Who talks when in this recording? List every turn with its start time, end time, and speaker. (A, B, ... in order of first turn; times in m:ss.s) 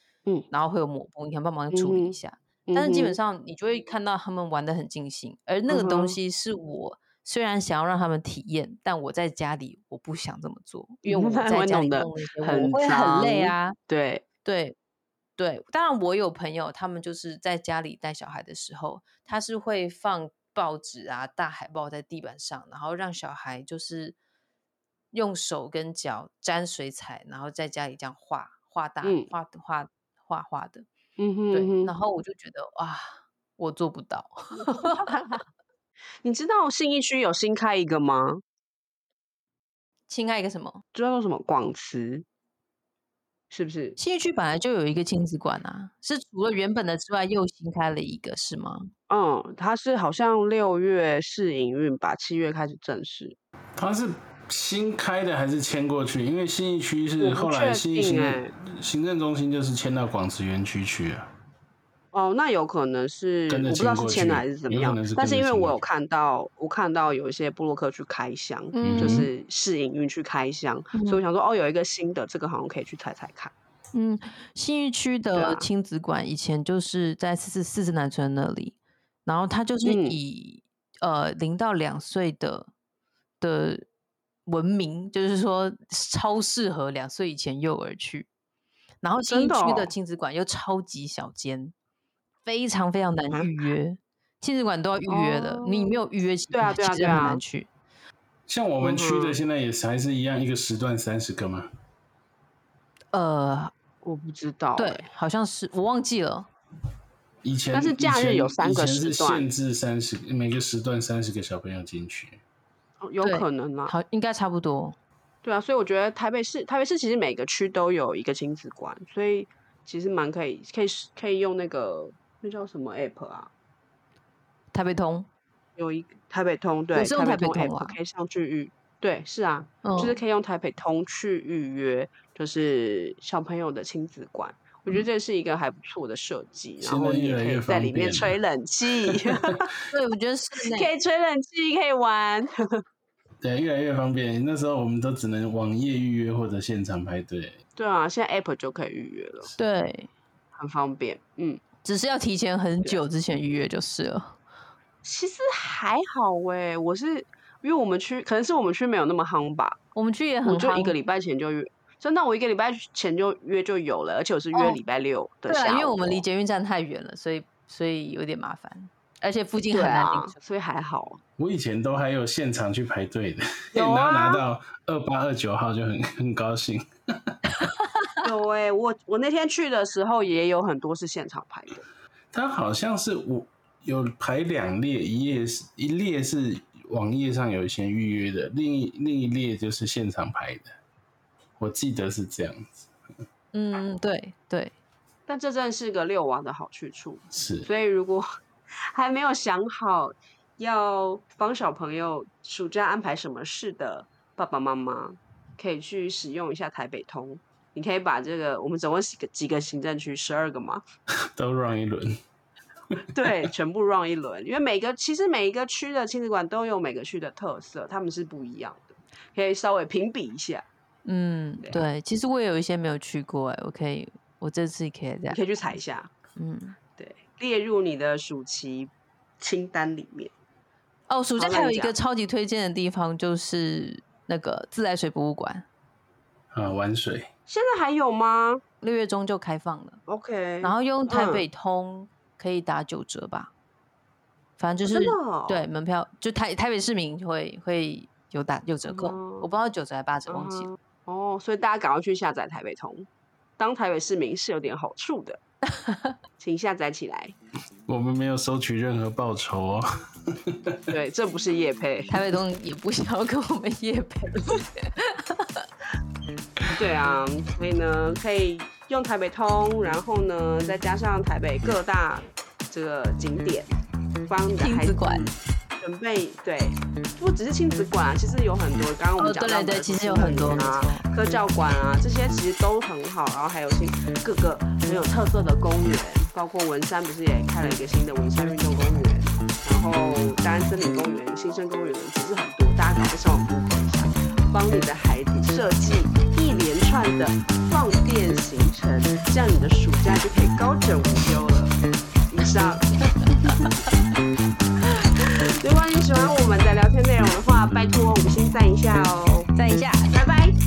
0:00.5-0:13.8 A
0:01.7-0:02.2 B
0:02.7-0:03.2 B
0:05.7-0:06.2 B
0:11.0-0:14.2 B
0:14.4-0:14.8 A
0:15.4-0:24.2 A
0:25.1-0:30.9 A
0:29.0-0:29.3 B
0:31.2-0:31.9 B
0:31.5-0:35.2 A
0:34.6-0:35.4 B
0:36.2-0:38.4 B
0:40.1-0:40.8 A
0:41.0-0:42.2 B
0:43.5-0:44.0 B
0:44.0-0:48.9 A
0:49.1-0:53.4 B
0:53.8-1:01.3 C
0:57.2-0:58.5 B
1:02.1-1:13.5 B
1:03.5-1:05.8 C
1:08.8-1:09.3 A
1:08.8-1:09.3 C
1:10.9-1:11.2 A
1:13.9-1:22.7 A
1:15.4-1:15.7 B
1:19.8-1:20.2 B
1:23.4-1:23.8 A
1:24.5-1:28.3 A
1:29.0-1:31.7 A
1:29.3-1:29.9 B
1:32.4-1:37.7 A
1:35.1-1:36.0 B
1:36.5-1:37.4 B
1:38.5-1:41.7 C
1:38.8-1:39.4 B
1:43.1-1:43.7 A
1:44.0-1:45.1 B
1:44.8-1:46.5 A
1:47.4-1:52.4 C
1:47.7-1:49.5 B
1:53.0-1:53.9 B
1:53.2-1:55.0 A
1:55.4-2:03.5 B
2:04.7-2:05.3 A
2:05.8-2:19.7 B
2:06.9-2:08.0 A
2:09.8-2:10.2 A
2:16.8-2:18.4 C
2:19.9-2:20.9 A
2:20.6-2:22.5 B
2:23.4-2:27.6 C
2:27.8-2:29.5 B
2:29.6-2:30.1 A
2:30.6-2:31.6 B
2:31.8-2:34.4 A
2:35.0-2:39.8 B
2:40.0-2:41.0 A
2:40.4-2:46.2 B
2:45.5-2:50.4 A
2:49.7-2:51.2 B
2:51.4-2:57.4 C
2:53.7-2:54.4 B
2:57.6-2:58.1 A
2:58.2-3:01.8 B
3:02.3-3:10.7 C
3:11.6-3:12.9 C
3:13.5-3:14.7 A
3:15.3-3:18.3 B
3:17.3-3:17.7 C
3:18.9-3:30.8 B
3:31.4-3:32.2 C
3:33.1-3:40.7 B
3:41.0-3:45.5 A
3:45.3-3:46.1 B
3:46.4-3:46.8 A
3:47.0-3:50.3 B
3:51.1-3:55.7 A
3:51.4-3:52.0 B
3:56.5-3:57.3 C
3:57.5-3:58.6 B
3:58.8-4:00.0 A
4:00.1-4:01.4 B
4:00.6-4:03.5 A
4:04.6-4:10.7 A
4:04.8-4:05.7 B
4:08.9-4:09.5 B
4:10.3-4:13.1 B
4:13.6-4:15.4 B
4:15.7-4:16.2 A
4:16.4-4:17.3 B
4:17.9-4:20.8 C
4:20.9-4:22.1 B
4:22.1-4:25.7 A
4:26.8-4:33.7 B
4:34.3-5:01.8 B
4:34.6-4:35.3 A
4:39.2-4:41.0 A
5:02.3-5:03.7 B
5:05.1-5:09.5 B
5:09.6-5:10.1 A
5:10.1-5:10.6 B